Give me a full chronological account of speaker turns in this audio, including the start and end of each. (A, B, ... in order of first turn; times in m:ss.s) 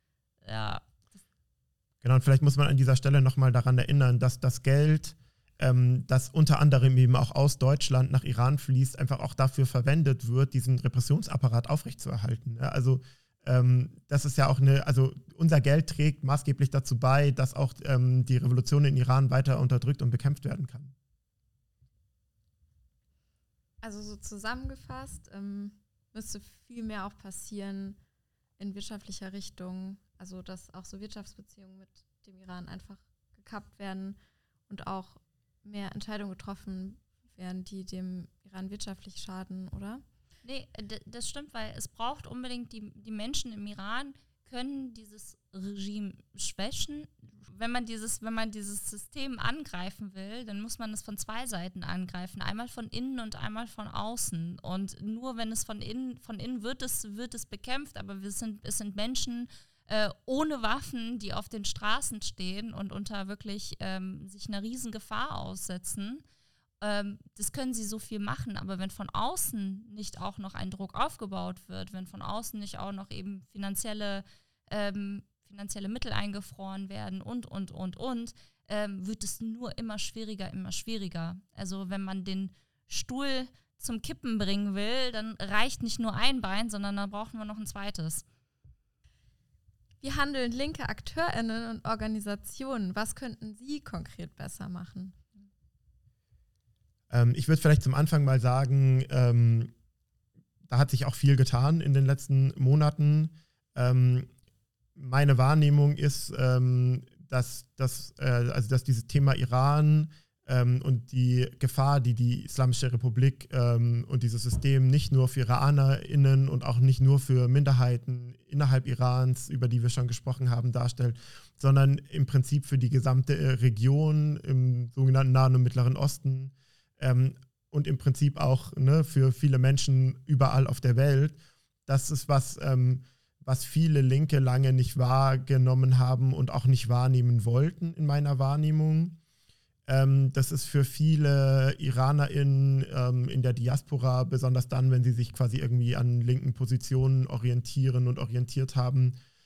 0:00.4-0:01.0 A
0:02.0-0:20.9 B
0:23.8-0:28.0 C
0:28.6-0:34.2 C
0:34.7-0:40.0 C
0:40.4-1:06.2 A
1:06.8-1:28.2 A
1:30.0-1:35.2 C
1:37.1-1:39.7 B
1:40.7-1:44.3 B
1:45.0-2:19.2 B
2:19.9-2:29.2 B